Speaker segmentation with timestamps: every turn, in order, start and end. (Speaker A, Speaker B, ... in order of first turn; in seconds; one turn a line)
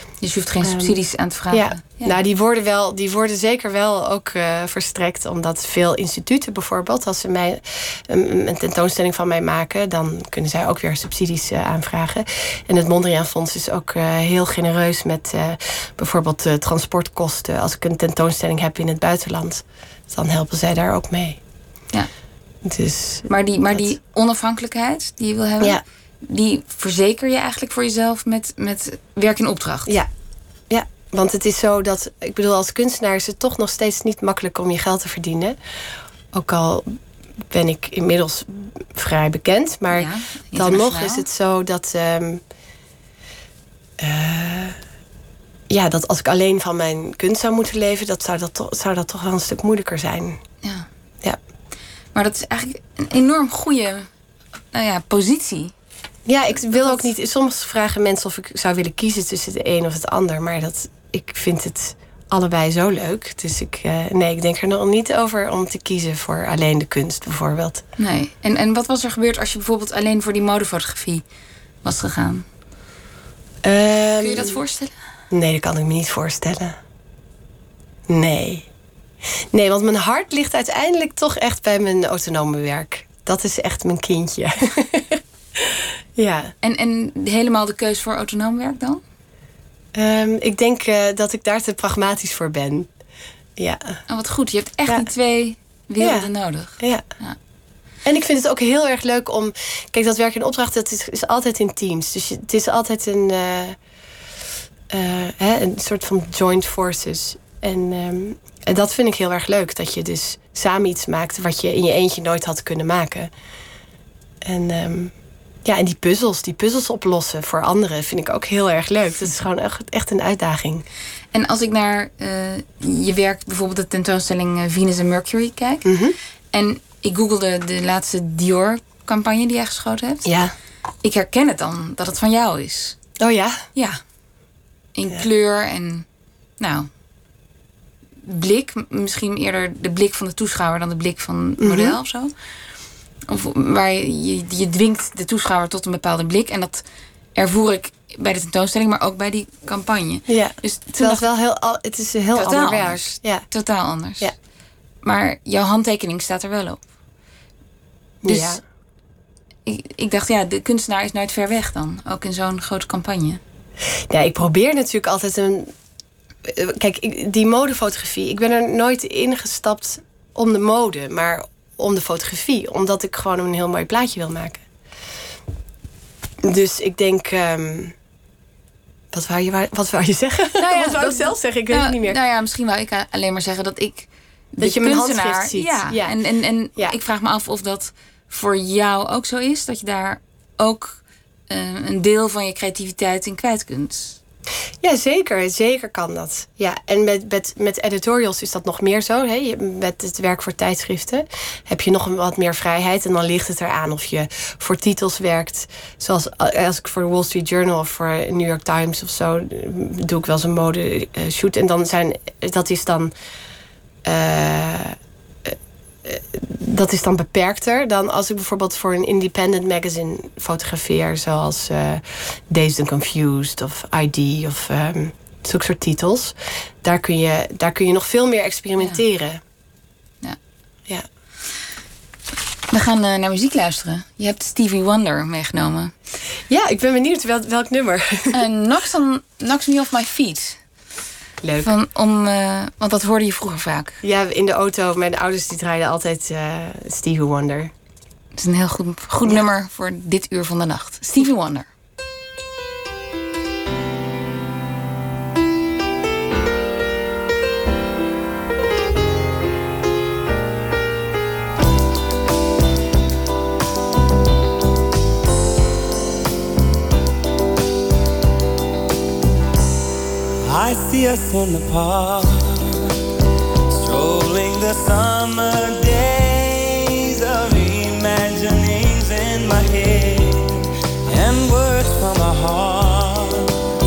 Speaker A: 0.2-2.2
Speaker B: 0.6-1.0
Speaker B: 1.5-21.4
Speaker B: 22.6-23.9
Speaker A: 23.3-29.9
Speaker B: 30.7-35.6
Speaker B: 36.3-37.0
Speaker B: 37.5-42.4
Speaker A: 39.9-41.2
Speaker B: 44.0-44.8
Speaker B: 45.7-50.4
Speaker A: 52.1-54.1
Speaker A: 54.7-55.7
Speaker B: 56.2-67.8
Speaker A: 68.0-71.2
Speaker A: 71.8-72.5
Speaker B: 73.6-74.6
Speaker A: 74.2-74.9
Speaker B: 75.3-76.8
Speaker B: 78.1-78.7
Speaker B: 79.5-86.5
Speaker A: 86.6-89.0
Speaker B: 89.9-92.9
Speaker B: 93.6-94.0
Speaker A: 94.1-97.3
Speaker B: 96.0-97.0
Speaker B: 98.0-103.8
Speaker B: 104.9-113.3
Speaker B: 114.4-115.1
Speaker B: 115.6-120.8
Speaker A: 121.3-125.9
Speaker B: 125.8-126.2
Speaker A: 126.5-130.3
Speaker B: 130.2-130.5
Speaker A: 131.0-133.0
Speaker B: 133.2-133.7
Speaker A: 134.9-136.1
Speaker A: 136.6-136.9
Speaker A: 138.2-142.3
Speaker B: 141.6-141.9
Speaker A: 143.3-146.8
Speaker A: 147.3-151.2
Speaker B: 150.3-153.4
Speaker A: 152.3-154.3
Speaker A: 155.0-156.8
Speaker B: 158.2-158.6
Speaker A: 158.2-158.6
Speaker A: 159.7-163.4
Speaker B: 164.1-165.7
Speaker B: 166.4-174.6
Speaker B: 176.4-177.9
Speaker B: 179.1-182.2
Speaker A: 180.6-194.2
Speaker B: 184.6-186.2
Speaker B: 194.8-213.1
Speaker B: 214.0-229.4
Speaker A: 232.7-235.9
Speaker B: 236.5-238.4
Speaker A: 238.3-240.6
Speaker B: 241.4-241.7
Speaker A: 241.6-244.0
Speaker B: 244.0-247.7
Speaker A: 248.3-251.7
Speaker C: 270.4-272.9
Speaker C: 273.7-283.7